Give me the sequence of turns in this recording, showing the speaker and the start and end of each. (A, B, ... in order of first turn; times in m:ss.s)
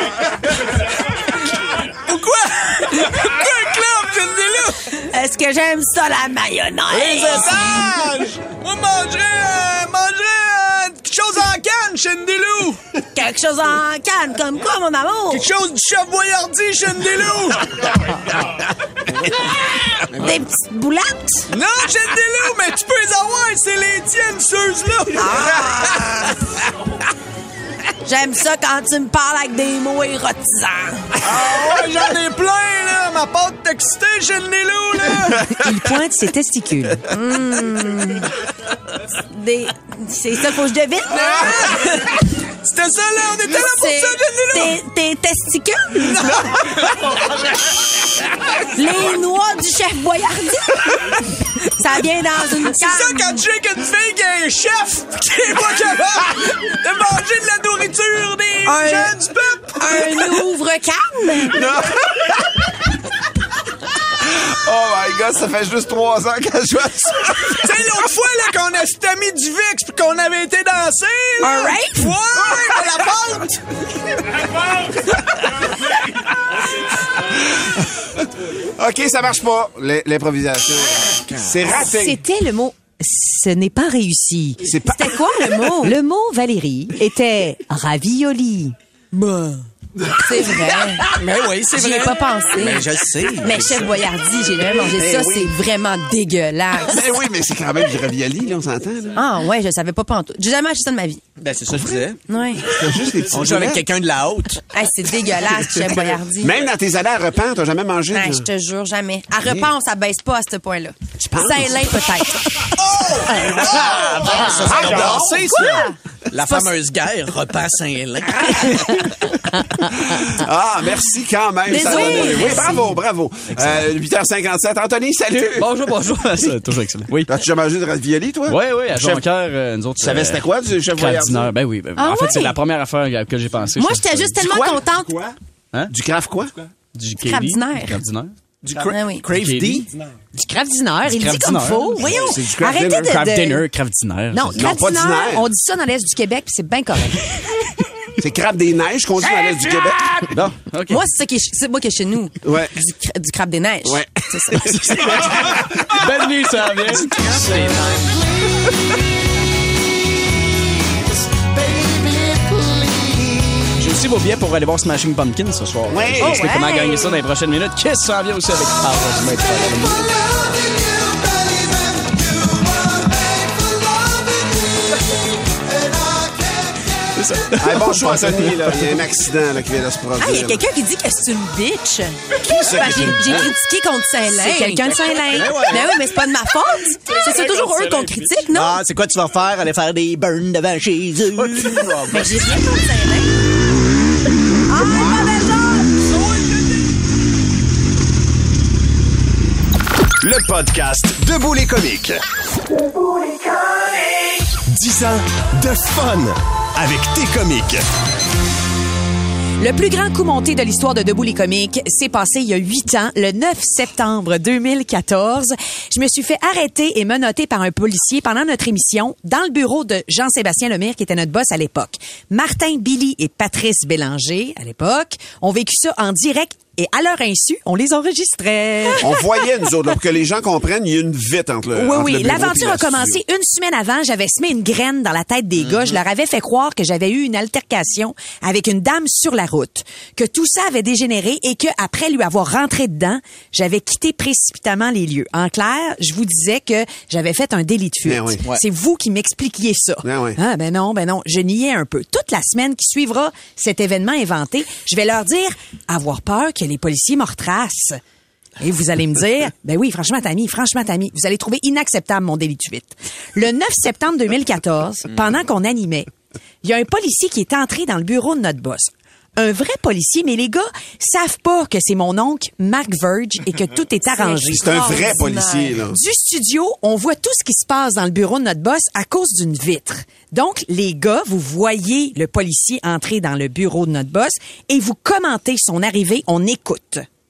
0:02.1-0:04.8 A
0:05.1-0:07.9 B
0:06.9-0:12.8 A
0:13.1-0:15.4 B
0:15.3-0:17.6 A
0:20.2-0:21.5 B
0:21.5-0:26.0 A
0:25.1-0:26.3 B
0:28.0-0:31.1 B
0:31.2-0:35.5 A
0:35.5-0:37.0 C
0:37.1-0:38.3 B
0:39.1-0:42.1 B
0:41.2-0:41.9 A
0:42.6-0:44.8 A
0:43.5-0:46.6 B
0:46.1-0:46.4 A
0:48.7-0:50.9 B
0:51.8-0:53.4 B
0:52.6-1:00.5 A
0:58.6-0:59.2 B
0:59.8-1:01.7 B
1:04.3-1:07.8 D
1:07.6-1:13.6 A
1:11.4-1:12.1 B
1:12.6-1:12.9 D
1:17.3-1:17.8 D
1:18.8-1:22.2 D
1:21.7-1:24.6 C
1:24.6-1:25.6 D
1:24.9-1:26.0 B
1:25.8-1:28.8 C
1:29.1-1:29.6 B
1:30.2-1:31.2 B
1:31.0-1:34.0 E
1:31.7-1:37.0 B
1:34.9-1:35.5 D
1:36.8-1:39.2 D
1:39.2-1:41.2 B
1:41.4-1:42.2 E
1:42.3-1:42.8 B
1:42.6-1:43.8 D
1:43.3-1:44.6 E
1:44.7-1:46.5 B
1:45.4-1:48.4 D
1:48.1-1:51.8 B
1:49.4-1:49.7 D
1:51.2-1:52.0 D
1:51.4-1:52.5 C
1:53.5-1:55.5 D
1:53.8-1:55.5 E
1:54.4-1:55.9 F
1:55.2-1:55.9 B
1:56.3-1:59.0 E
2:00.1-2:06.5 D
2:01.7-2:02.9 B
2:05.4-2:07.4 F
2:07.3-2:09.3 D
2:08.5-2:14.6 F
2:10.0-2:11.5 D
2:12.0-2:12.6 B
2:13.8-2:15.3 B
2:14.4-2:15.3 D
2:15.9-2:16.5 D
2:17.0-2:18.4 F
2:17.2-2:18.0 B
2:18.6-2:19.9 E
2:18.8-2:19.3 B
2:19.3-2:19.9 F
2:20.4-2:23.6 C
2:21.0-2:24.6 F
2:22.1-2:23.2 D
2:24.3-2:27.3 C
2:24.6-2:25.5 D
2:28.2-2:30.2 D
2:30.3-2:31.0 F
2:30.9-2:35.3 B
2:32.4-2:32.8 D
2:33.8-2:35.6 D
2:36.0-2:38.0 F
2:37.0-2:38.1 E
2:43.8-2:50.1 F
2:45.9-2:46.5 D
2:46.4-2:47.1 B
2:57.1-2:59.0 F
2:57.6-3:00.6 D
3:00.2-3:08.8 B
3:02.9-3:03.5 E
3:04.3-3:05.5 C
3:05.2-3:06.1 E
3:07.6-3:08.3 A
3:07.7-3:08.1 F
3:08.5-3:12.6 E
3:12.0-3:13.3 B
3:14.7-3:15.9 B
3:16.0-3:16.8 A
3:20.2-3:22.2 G
3:24.7-3:27.8 G
3:29.6-3:49.1 C
3:49.0-3:53.2 D
3:51.8-4:18.0 C
4:08.0-4:08.4 D
4:10.0-4:10.4 D
4:18.6-4:26.1 C
4:26.6-4:35.3 C
4:34.1-4:35.8 B
4:34.5-4:36.0 D
4:35.9-4:47.0 C